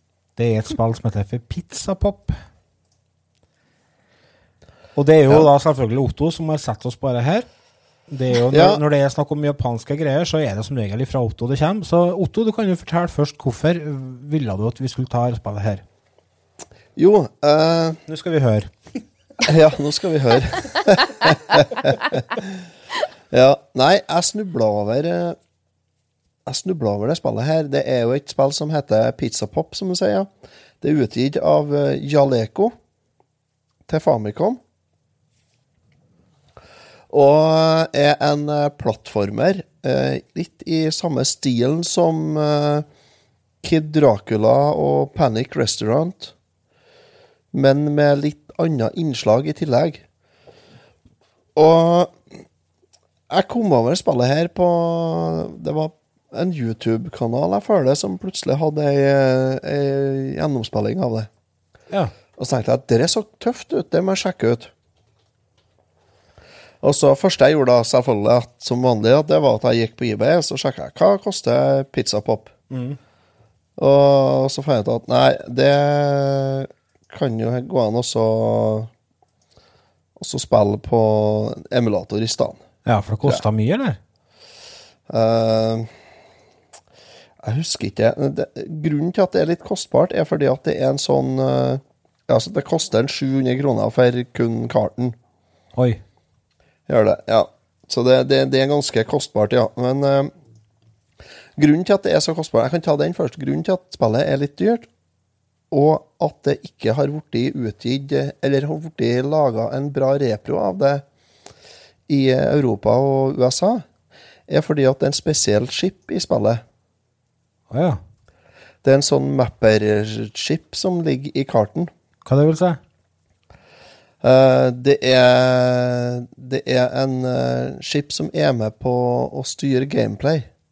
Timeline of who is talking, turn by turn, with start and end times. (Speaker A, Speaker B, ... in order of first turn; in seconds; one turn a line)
Speaker A: 0.4-2.3
Speaker A: 5.0-7.5
Speaker A: 8.1-15.8
Speaker B: 8.5-8.8
Speaker B: 16.9-18.0
Speaker A: 18.1-18.7
Speaker B: 19.4-22.6
Speaker B: 23.3-25.4
Speaker B: 26.4-30.3
Speaker B: 30.8-32.7
Speaker B: 33.9-34.6
Speaker B: 37.1-42.9
Speaker B: 43.6-46.3
Speaker B: 47.5-50.0
Speaker B: 51.5-52.2
Speaker B: 53.3-61.3
Speaker B: 62.4-64.7
Speaker B: 66.8-72.5
Speaker A: 72.7-73.0
Speaker B: 73.8-78.9
Speaker B: 80.2-82.6
Speaker A: 82.8-84.0
Speaker B: 85.1-85.9
Speaker B: 87.4-95.2
Speaker A: 95.8-96.0
Speaker B: 96.9-100.3
Speaker B: 101.6-104.9
Speaker B: 105.7-111.0
Speaker B: 112.1-113.8
Speaker B: 114.5-116.6
Speaker A: 117.7-118.0
Speaker B: 118.8-121.9
Speaker A: 122.2-122.8
Speaker B: 124.2-130.5